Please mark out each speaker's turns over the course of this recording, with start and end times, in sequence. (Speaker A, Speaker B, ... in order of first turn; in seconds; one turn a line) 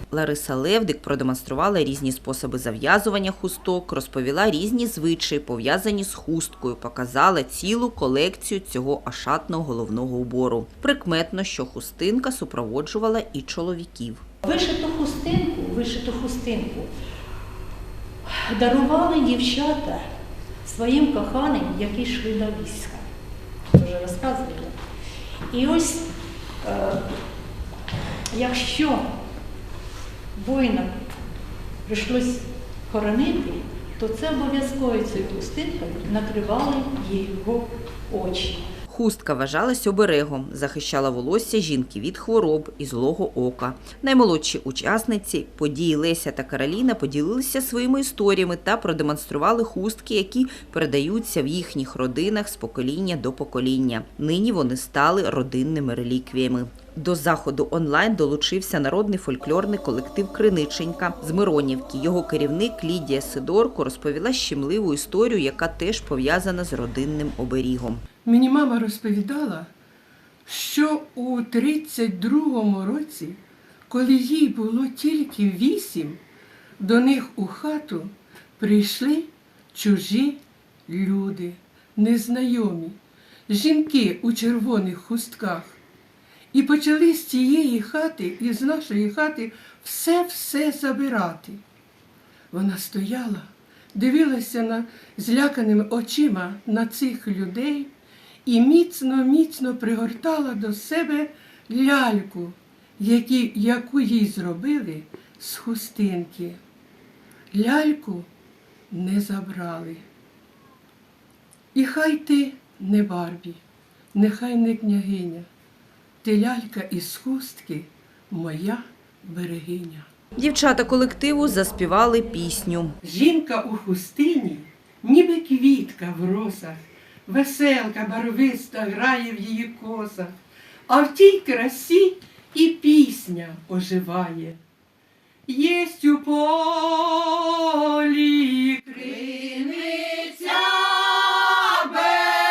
Speaker A: 0.1-14.2
Speaker B: 14.4-16.9
Speaker B: 18.2-20.0
Speaker B: 20.6-23.0
Speaker B: 23.7-24.7
Speaker B: 25.5-26.1
Speaker B: 26.6-27.0
Speaker B: 28.3-29.0
Speaker B: 30.4-30.9
Speaker B: 31.9-38.7
Speaker A: 38.9-68.0
Speaker C: 68.2-69.7
Speaker C: 70.5-76.2
Speaker C: 76.8-85.8
Speaker C: 86.5-91.6
Speaker C: 92.5-97.9
Speaker C: 98.5-106.6
Speaker C: 107.5-108.3
Speaker C: 108.9-110.0
Speaker C: 111.7-113.6
Speaker C: 114.1-115.5
Speaker C: 116.2-120.1
Speaker A: 120.4-122.9
Speaker C: 123.0-130.3
Speaker C: 130.9-134.6
Speaker C: 135.5-142.2